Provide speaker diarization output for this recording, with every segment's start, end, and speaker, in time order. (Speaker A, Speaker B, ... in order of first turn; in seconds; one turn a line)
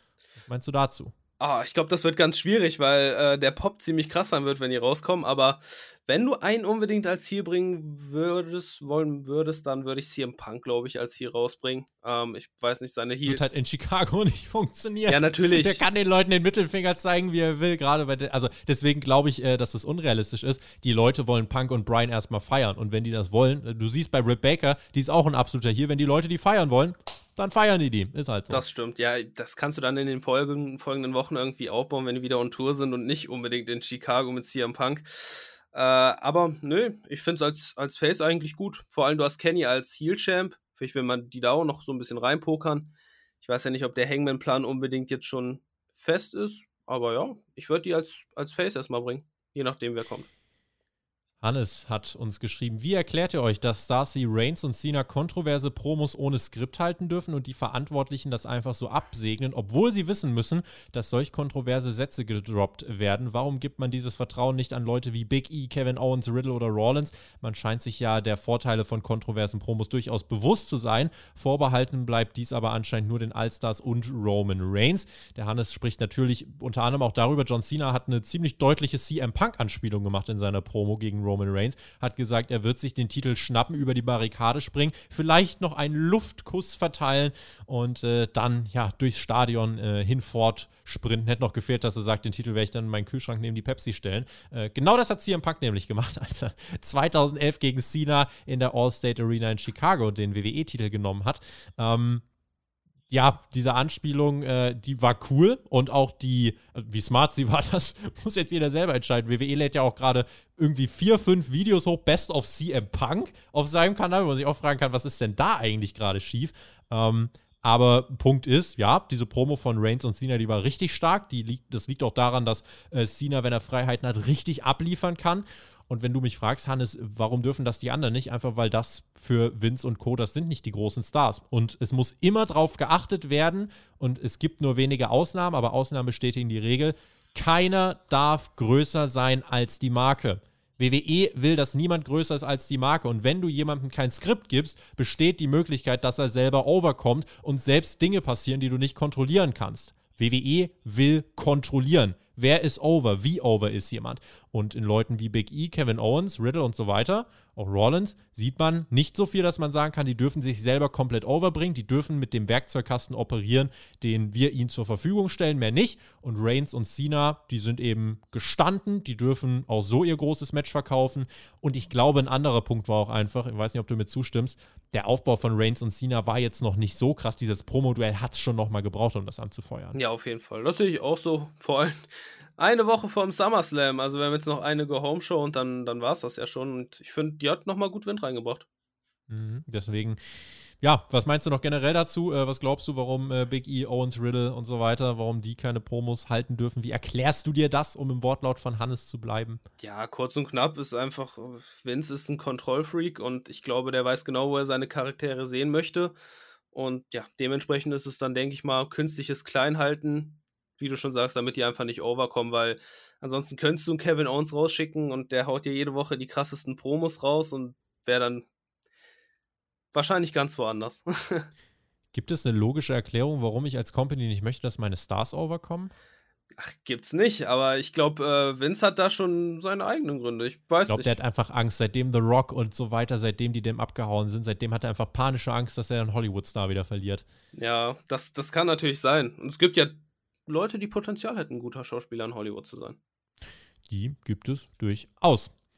Speaker A: 0.4-1.1
Speaker B: 1.4-13.4
Speaker A: 13.3-28.6
Speaker B: 15.1-15.8
Speaker B: 28.5-50.3
Speaker A: 51.4-102.2
Speaker A: 103.1-179.9
Speaker B: 179.9-188.7
Speaker A: 189.3-199.6
Speaker B: 199.8-206.1
Speaker B: 206.7-218.5
Speaker B: 219.9-221.5
Speaker A: 222.1-225.9
Speaker B: 226.6-231.2
Speaker A: 230.9-237.2
Speaker B: 237.5-243.0
Speaker A: 243.9-245.5